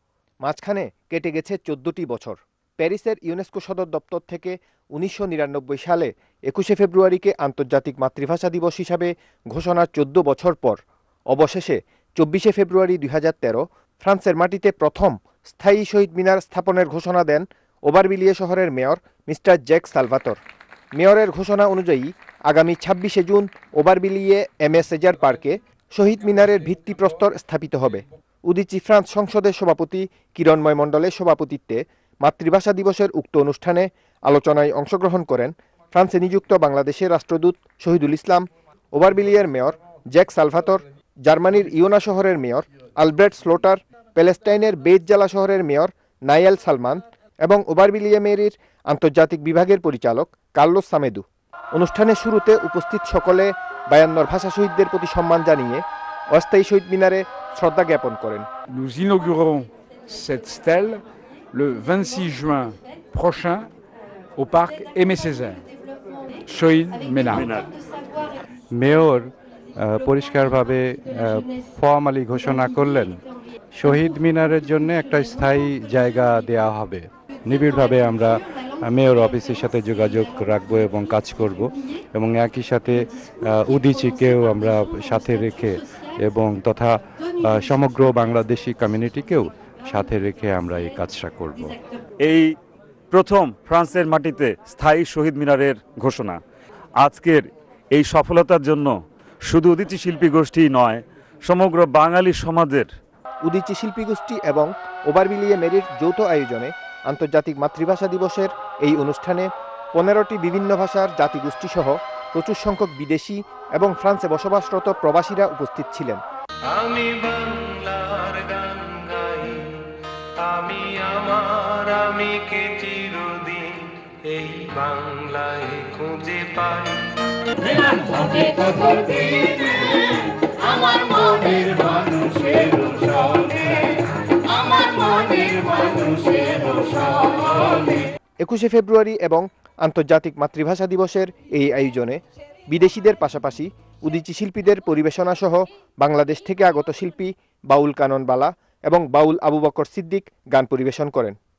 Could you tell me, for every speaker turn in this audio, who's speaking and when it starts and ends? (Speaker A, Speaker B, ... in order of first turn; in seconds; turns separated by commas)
Speaker A: 0.5-10.8, Speaker A: 11.3-20.4, Speaker A: 21.0-58.5, Speaker B: 58.7-61.0, Speaker B: 61.5-63.7, Speaker B: 64.4-65.7, Speaker B: 66.5-67.6, Speaker C: 67.3-67.7, Speaker D: 68.7-73.2, Speaker D: 73.8-91.8, Speaker C: 93.1-96.4, Speaker C: 97.0-97.4, Speaker C: 97.9-99.0, Speaker C: 99.5-102.9, Speaker A: 103.5-116.2, Speaker E: 116.7-119.8, Speaker E: 120.4-138.0, Speaker A: 138.4-151.4